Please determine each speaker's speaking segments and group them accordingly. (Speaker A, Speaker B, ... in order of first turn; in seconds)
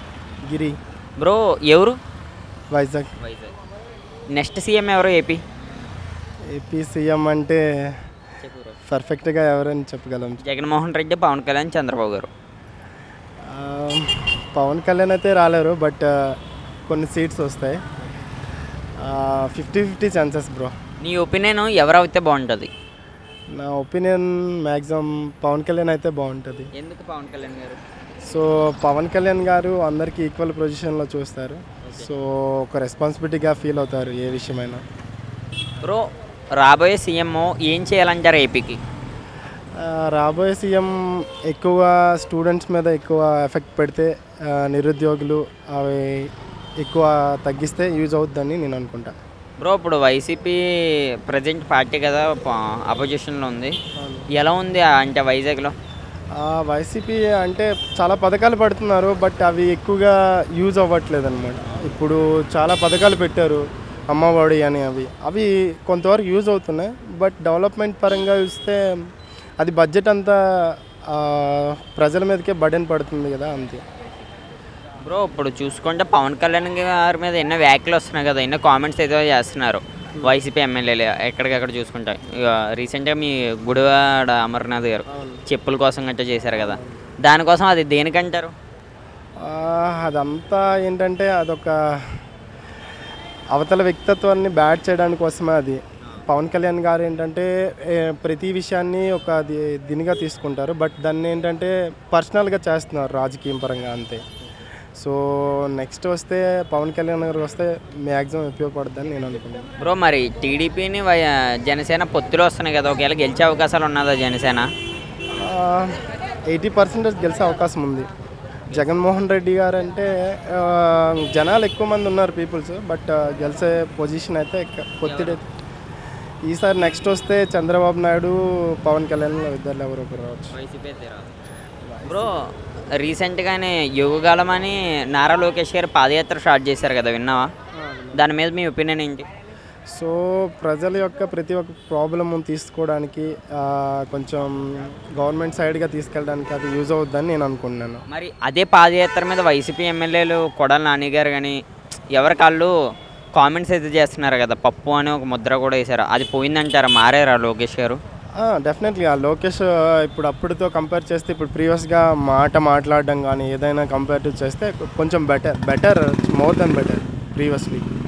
Speaker A: 0.5-0.8, 2.7-3.1, 6.5-8.0, 8.9-10.4, 13.4-16.4, 16.9-17.8, 19.0-20.7, 23.5-26.7, 28.2-34.8, 39.8-49.1, 54.0-54.3, 56.4-68.8, 69.6-73.8, 85.1-85.4, 86.5-87.1, 89.4-92.2, 93.5-104.2, 105.0-109.7, 115.4-116.0, 116.5-118.1, 118.7-125.5, 126.5-130.5, 131.8-132.4, 137.8-138.3, 139.9-148.0, 158.4-167.9
Speaker B: 1.2-2.0, 3.2-3.5, 4.3-5.4, 8.4-8.8, 10.4-12.3, 21.0-22.7, 26.7-27.8, 36.6-38.8, 49.6-50.6, 51.2-53.7, 54.3-55.7, 75.0-88.5, 109.8-114.7, 118.7-119.0, 125.0-125.4, 130.5-131.3, 132.1-137.4, 138.1-139.2, 148.1-151.6, 152.1-152.7, 153.3-158.0